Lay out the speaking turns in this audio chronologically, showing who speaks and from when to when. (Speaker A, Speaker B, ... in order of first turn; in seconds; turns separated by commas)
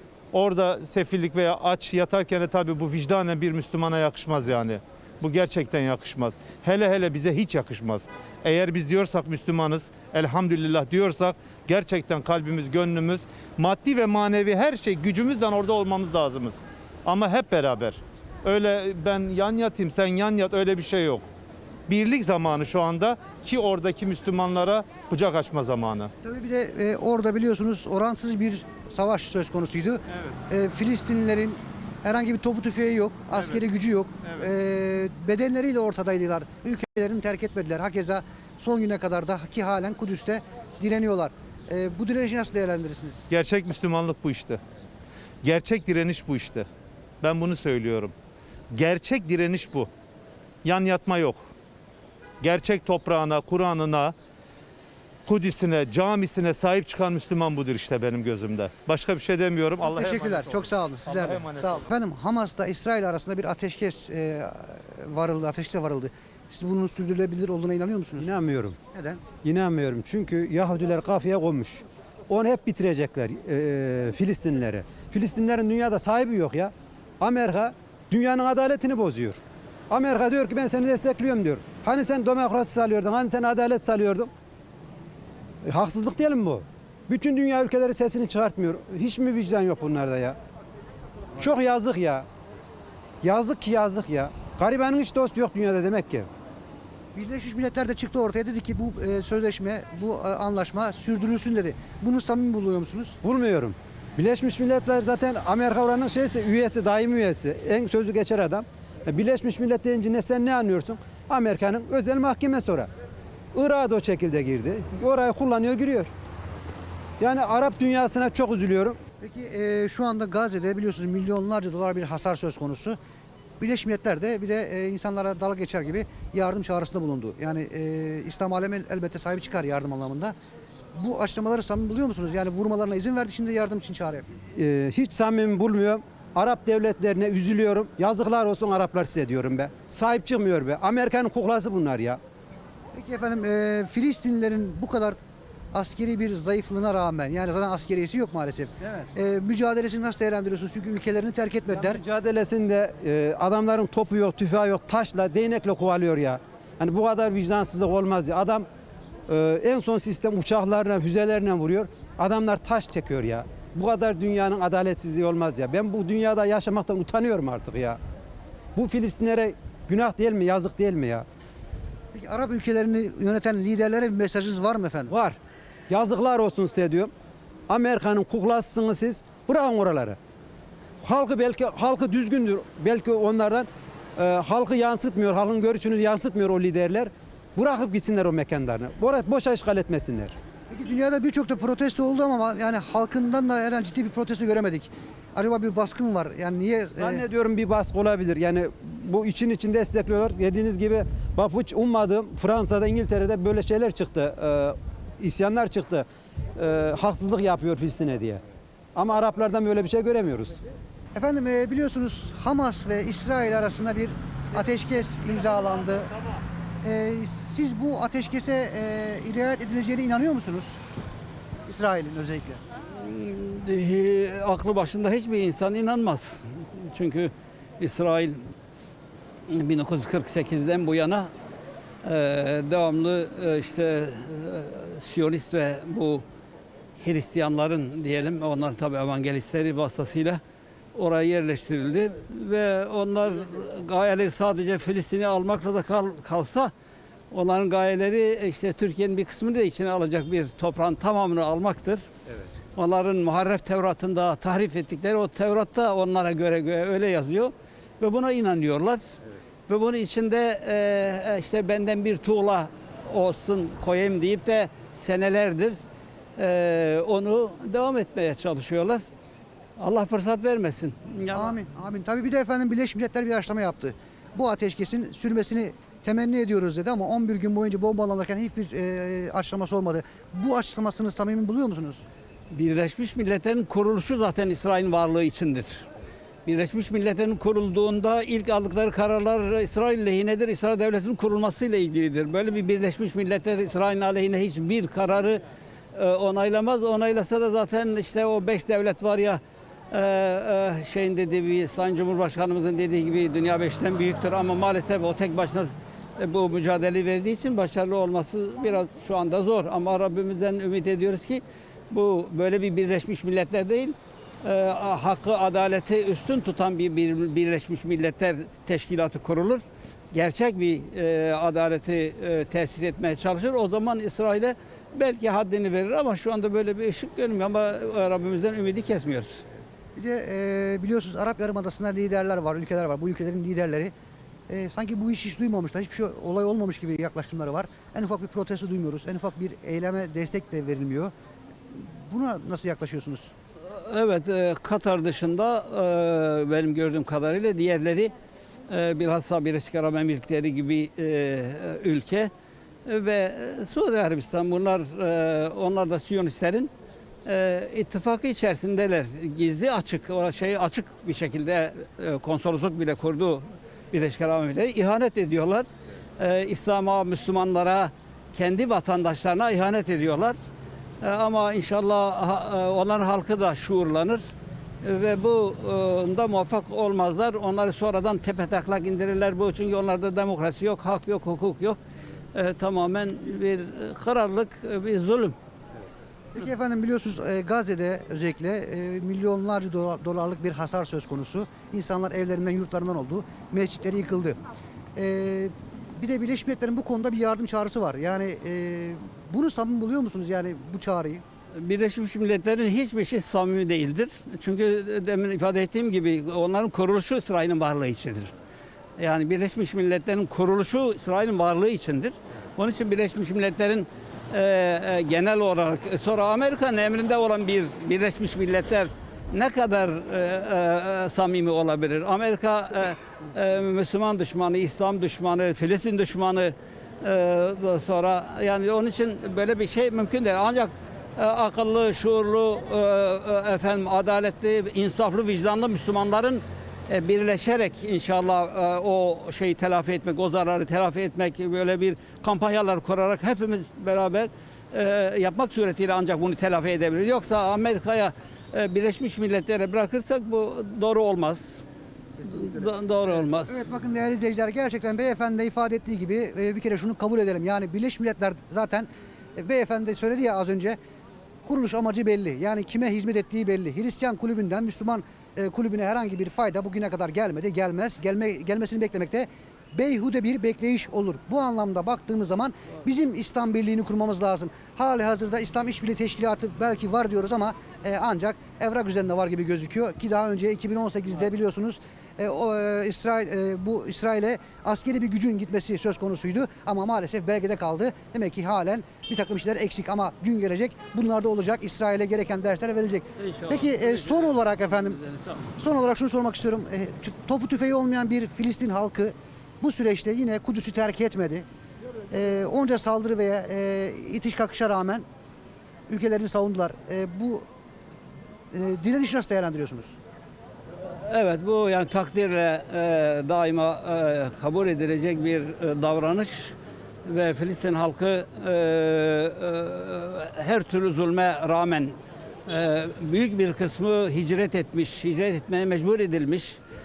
Speaker A: 0.3-21.2, Speaker A: 21.9-26.1, Speaker B: 26.2-43.2, Speaker A: 33.3-33.6, Speaker A: 34.2-34.5, Speaker A: 43.3-44.6, Speaker A: 45.4-46.6, Speaker A: 47.2-48.1, Speaker A: 48.7-49.9, Speaker A: 50.6-51.4, Speaker A: 52.4-54.1, Speaker A: 55.3-61.8, Speaker B: 59.8-68.3, Speaker C: 68.2-68.8, Speaker B: 68.9-69.2, Speaker C: 69.4-84.3, Speaker C: 85.6-90.4, Speaker C: 91.4-92.3, Speaker C: 93.2-96.3, Speaker B: 97.1-103.2, Speaker C: 103.2-112.9, Speaker C: 113.5-116.1, Speaker C: 117.2-119.0, Speaker B: 119.2-123.0, Speaker B: 123.6-130.3, Speaker B: 130.9-134.3, Speaker C: 134.5-142.2, Speaker B: 142.9-145.2, Speaker B: 145.7-152.0, Speaker C: 148.8-149.1, Speaker C: 151.7-158.7, Speaker C: 159.3-168.0, Speaker C: 168.7-171.2, Speaker B: 172.1-175.1, Speaker C: 175.1-175.4, Speaker C: 175.9-177.1, Speaker C: 177.7-180.2, Speaker C: 181.0-190.3, Speaker B: 190.7-197.2, Speaker C: 197.0-208.4, Speaker C: 208.9-210.6, Speaker B: 211.1-216.1, Speaker B: 216.8-220.8, Speaker B: 221.7-222.6, Speaker D: 222.9-228.5, Speaker D: 229.5-231.3, Speaker D: 232.0-236.2, Speaker D: 237.0-240.4, Speaker D: 240.9-246.7, Speaker D: 247.3-252.1, Speaker D: 252.8-265.8, Speaker D: 266.4-269.0, Speaker D: 269.8-271.6, Speaker B: 271.3-282.0, Speaker D: 282.5-285.9, Speaker D: 286.4-295.4, Speaker D: 295.9-299.4, Speaker D: 299.9-329.4, Speaker B: 329.9-333.9, Speaker B: 334.5-341.1, Speaker B: 341.7-343.3, Speaker D: 343.6-348.1, Speaker D: 348.7-352.3, Speaker D: 352.9-356.7, Speaker D: 357.2-365.6, Speaker D: 366.2-370.4, Speaker D: 371.0-374.2, Speaker D: 374.8-381.8, Speaker D: 382.3-385.3, Speaker B: 386.3-394.4, Speaker B: 394.9-401.2, Speaker D: 401.5-408.3, Speaker D: 409.0-451.6, Speaker B: 452.2-452.7, Speaker D: 452.2-453.6, Speaker B: 453.4-460.8, Speaker B: 461.4-495.0, Speaker D: 493.2-494.2, Speaker B: 495.6-501.4, Speaker B: 502.1-505.0, Speaker B: 505.9-507.4, Speaker B: 508.5-509.9, Speaker D: 510.8-516.5, Speaker D: 517.0-522.0, Speaker D: 522.5-526.6